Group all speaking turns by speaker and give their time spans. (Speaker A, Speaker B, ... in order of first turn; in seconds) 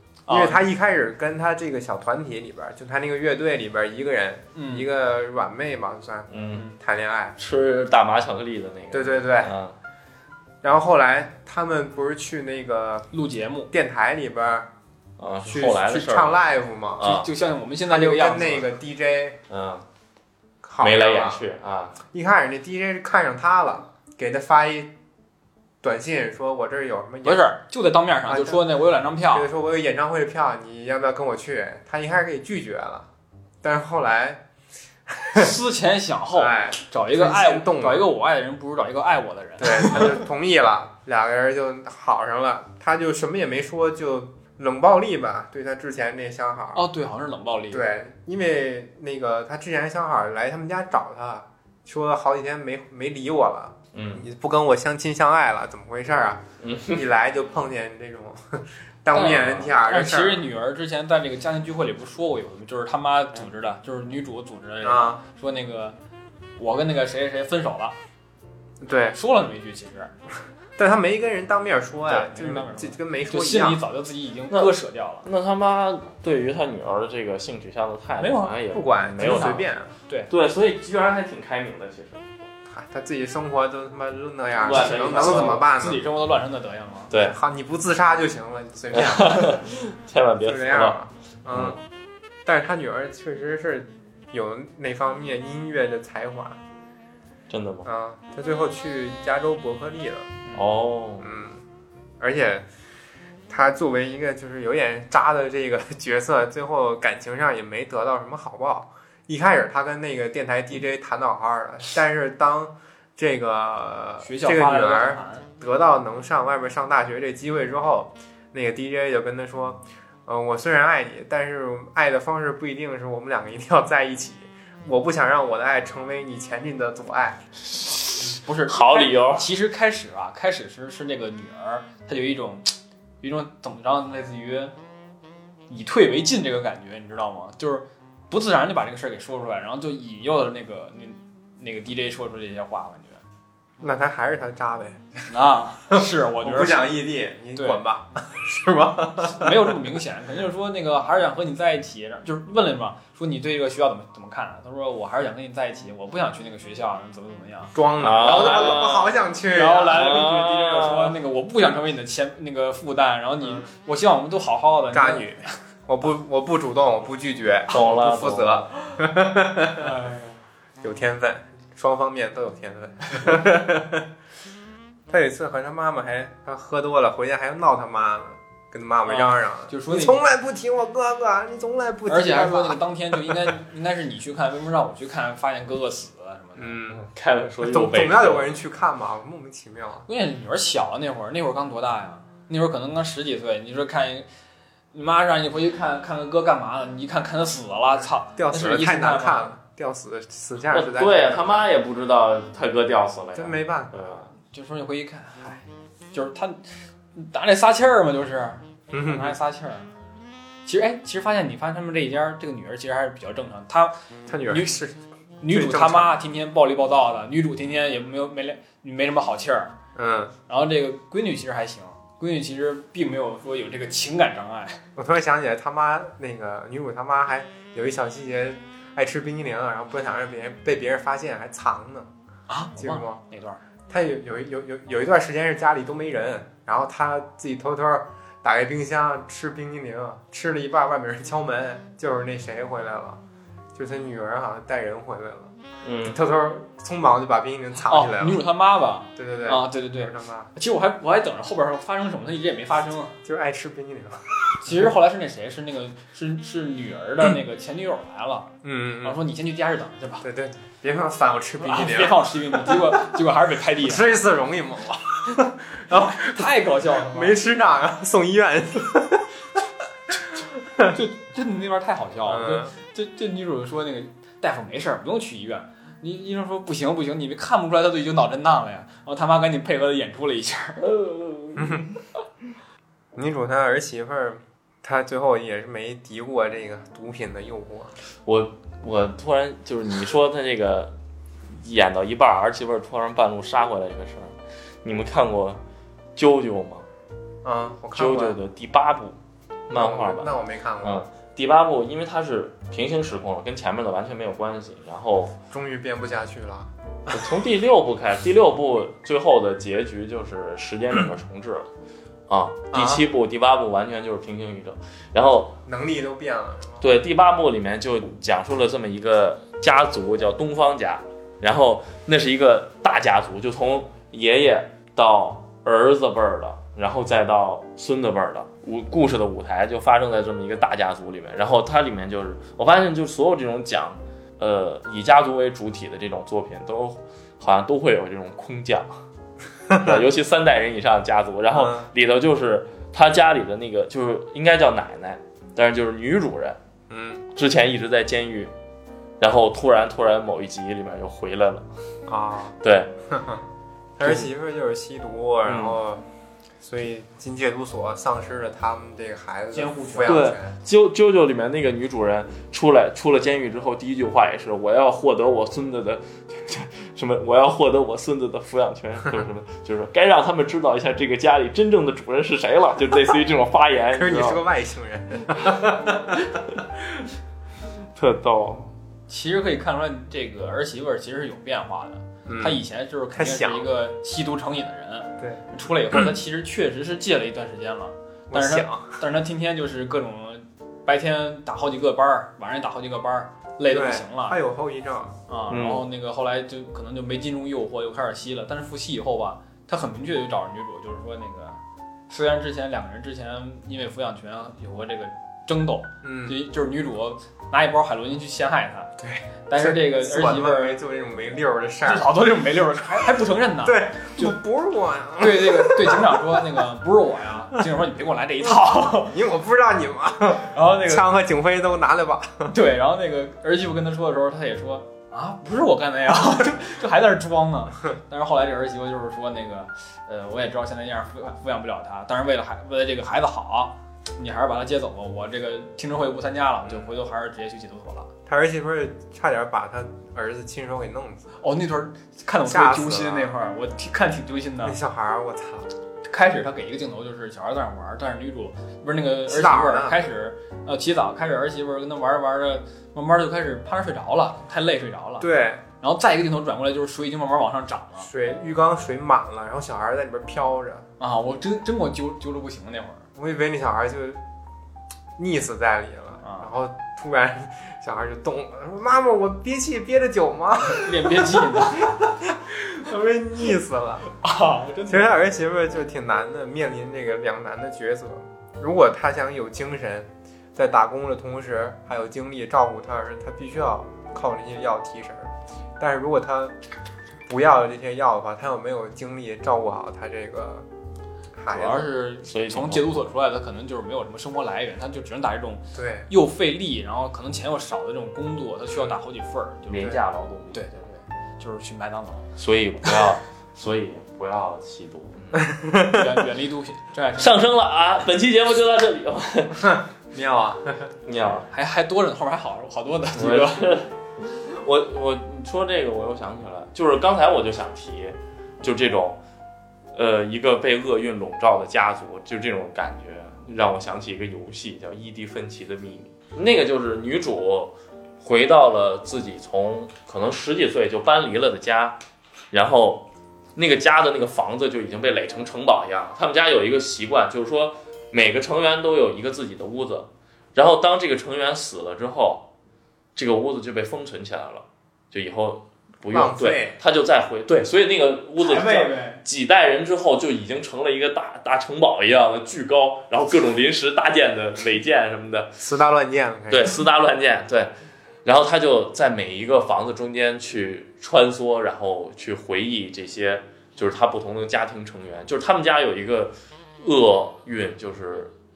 Speaker A: 0.2-0.6, 4.5-4.9, 13.1-13.7, 17.0-18.7, 27.2-29.5, 35.3-40.2, 46.7-47.8, 59.1-66.0, 66.6-68.0, 69.1-70.1, 72.1-75.3, 78.2-78.6, 79.2-79.5, 84.8-87.1, 114.2-115.5, 128.2-134.7, 135.7-143.2, 145.3-147.0, 147.5-147.8, 149.2-158.6, 159.5-165.5, 167.8-168.0, 169.8-170.3, 179.1-180.2, 182.1-186.8, 190.1-194.3, 194.9-199.5, 204.5-209.9, 210.6-213.9, 215.4-219.7, 220.5-224.8, 232.5-233.6, 247.9-253.1, 254.6-258.5, 259.0-260.2, 261.6-264.1, 265.9-267.4, 270.9-280.8, 359.5-360.2, 379.1-394.4, 395.3-401.6, 402.1-408.9, 409.5-410.8, 411.9-414.4, 415.2-419.1, 420.5-421.1, 422.5-438.1, 441.4-444.8, 446.0-455.3, 455.8-458.1, 461.0-463.0, 466.2-466.5, 470.7-472.0, 474.2-475.1, 491.5-499.9, 500.5-502.3, 505.9-507.4, 511.5-513.8, 548.4-549.2
Speaker B: 0.3-7.4, 8.9-9.5, 10.6-13.1, 13.7-14.7, 15.4-17.2, 17.9-19.4, 20.6-21.4, 22.1-24.9, 25.8-27.5, 28.3-28.6, 29.3-33.1, 33.6-34.4, 35.1-35.5, 36.3-38.1, 39.6-46.8, 47.7-60.5, 64.8-65.2, 68.8-69.2, 70.8-73.8, 78.7-79.9, 82.7-86.0, 87.1-89.6, 90.4-91.8, 92.5-96.6, 97.8-100.3, 101.2-101.6, 102.2-102.7, 103.5-127.4, 143.8-145.0, 145.9-149.8, 157.7-160.0, 164.9-169.9, 170.8-174.1, 175.1-183.5, 186.6-187.1, 187.6-190.1, 198.3-201.5, 203.3-204.2, 208.9-209.3, 214.3-215.0, 215.5-216.2, 219.9-220.3, 224.9-232.1, 232.8-233.2, 233.9-243.2, 243.7-248.4, 249.2-250.5, 253.2-254.8, 258.6-259.2, 260.2-263.0, 263.8-266.5, 267.0-269.3, 272.2-272.7, 281.6-281.9, 283.1-287.9, 297.4-298.4, 299.7-301.0, 305.5-307.2, 312.7-313.1, 315.6-316.9, 339.7-340.0, 341.5-341.9, 346.9-347.2, 352.1-352.6, 353.1-353.4, 354.0-356.0, 356.6-360.5, 373.9-376.2, 382.2-382.6, 383.1-383.7, 388.3-389.0, 393.7-395.2, 406.0-406.4, 409.0-412.2, 413.6-416.4, 418.7-422.5, 438.3-441.3, 442.4-443.3, 444.6-445.7, 449.3-450.0, 455.2-455.6, 458.0-460.9, 463.1-464.2, 465.2-474.1, 474.9-486.5, 487.3-490.6, 491.4-491.9, 495.7-496.1, 505.3-506.1, 509.6-510.9, 546.1-546.8, 555.6-556.8
Speaker C: 6.3-6.6, 7.4-9.8, 15.2-16.4, 17.0-17.3, 19.5-19.8, 20.8-22.0, 53.9-54.2, 56.6-57.0, 59.1-59.7, 74.5-79.7, 80.3-82.3, 84.6-85.7, 87.1-87.3, 88.9-91.0, 91.5-91.8, 97.5-97.8, 100.5-101.3, 128.7-129.5, 158.0-159.1, 159.9-161.2, 167.7-168.7, 186.9-188.5, 200.7-204.3, 245.8-246.2, 280.8-281.8, 288.2-290.9, 291.5-295.6, 296.1-296.9, 297.9-299.2, 299.7-305.4, 307.1-311.7, 312.3-315.6, 316.8-339.0, 339.7-346.6, 347.4-348.5, 349.2-351.6, 352.6-352.9, 355.4-355.8, 360.0-374.4, 377.9-378.7, 395.5-395.8, 492.2-493.0, 499.7-500.6, 502.4-505.4, 507.1-509.8, 511.1-511.5, 513.1-519.2, 519.9-532.0, 532.5-542.5, 543.1-555.6, 556.5-557.7, 558.2-568.3